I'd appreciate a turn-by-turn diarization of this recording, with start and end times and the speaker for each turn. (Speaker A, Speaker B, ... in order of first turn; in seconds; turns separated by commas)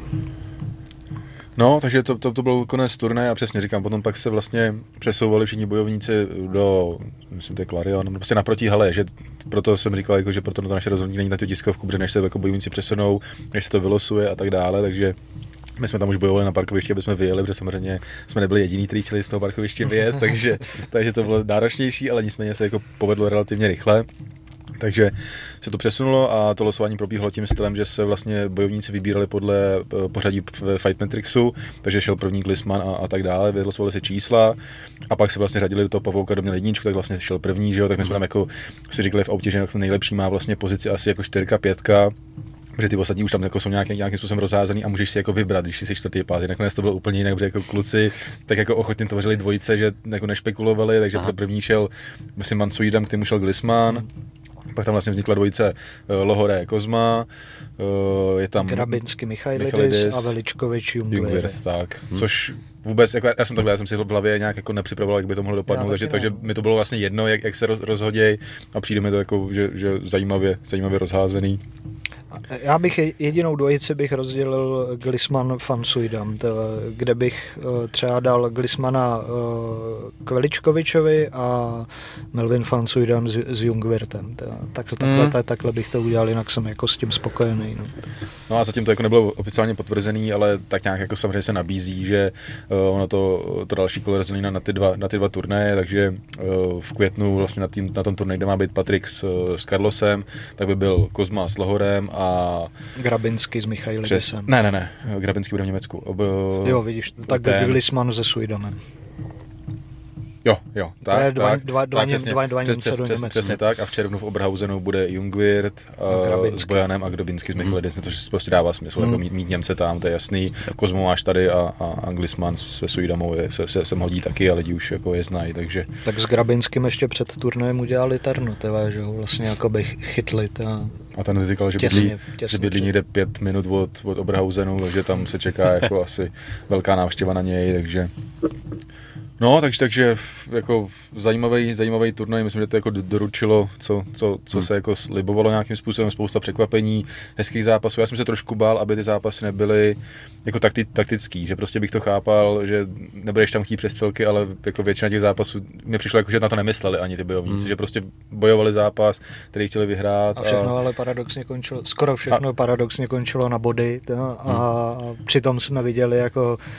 Speaker A: 1.6-15.2, Speaker A: 15.8-24.1, Speaker A: 24.8-34.6, Speaker A: 35.1-42.1, Speaker A: 42.8-54.1, Speaker A: 54.7-59.0, Speaker B: 58.6-61.6, Speaker A: 59.5-60.3, Speaker A: 61.1-71.6, Speaker B: 65.7-66.6, Speaker B: 72.5-88.0, Speaker A: 85.0-85.3, Speaker A: 88.5-102.7, Speaker B: 103.0-104.5, Speaker A: 104.0-107.8, Speaker B: 106.6-108.8, Speaker A: 110.4-125.9, Speaker B: 111.0-113.5, Speaker B: 116.1-116.8, Speaker B: 126.0-130.9, Speaker A: 131.2-138.1, Speaker B: 131.8-132.9, Speaker A: 139.4-160.7, Speaker B: 160.3-166.6